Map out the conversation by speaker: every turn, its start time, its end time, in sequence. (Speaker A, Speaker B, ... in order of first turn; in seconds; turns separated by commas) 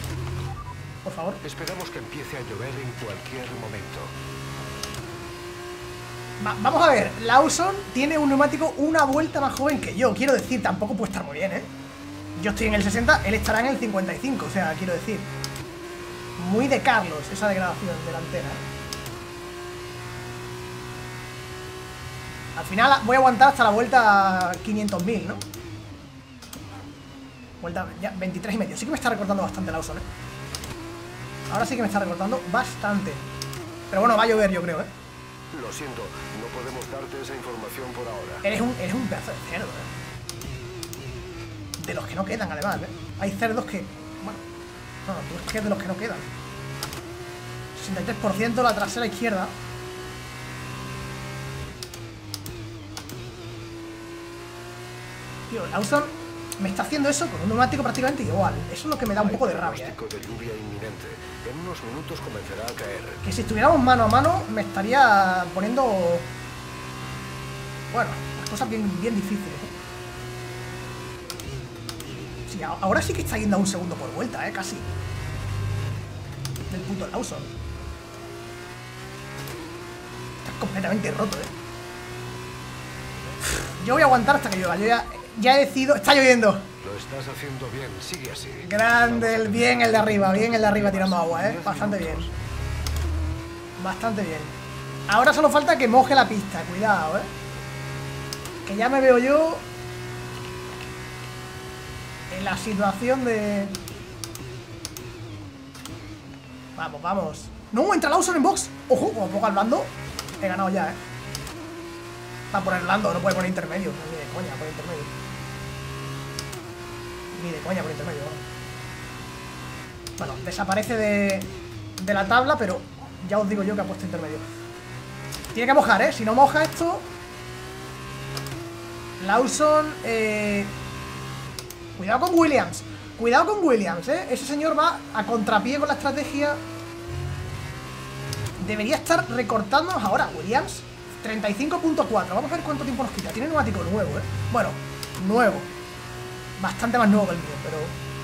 Speaker A: 1.0-1.4, Speaker B: 1.4-4.1, Speaker A: 6.4-11.7, Speaker A: 12.3-15.3, Speaker A: 16.4-18.6, Speaker A: 22.6-25.4, Speaker A: 27.6-30.1, Speaker A: 31.5-33.2, Speaker A: 33.9-34.9, Speaker B: 35.5-38.5, Speaker A: 38.4-39.9, Speaker A: 41.8-44.4, Speaker A: 45.0-46.3, Speaker A: 47.7-49.5, Speaker A: 55.5-60.0, Speaker B: 59.1-63.2, Speaker A: 63.2-66.3, Speaker A: 67.9-69.7, Speaker A: 72.5-74.8, Speaker A: 76.7-77.5, Speaker A: 80.4-81.5, Speaker A: 83.5-86.7, Speaker B: 86.8-92.3, Speaker A: 88.6-92.3, Speaker A: 93.8-94.5, Speaker A: 95.1-97.3, Speaker A: 98.7-99.7, Speaker A: 102.3-103.8, Speaker A: 106.8-111.0, Speaker A: 112.5-115.1, Speaker A: 117.3-118.4, Speaker A: 120.2-124.4, Speaker A: 125.5-127.1, Speaker A: 129.2-130.7, Speaker A: 132.0-136.6, Speaker A: 138.6-145.7, Speaker A: 146.6-147.9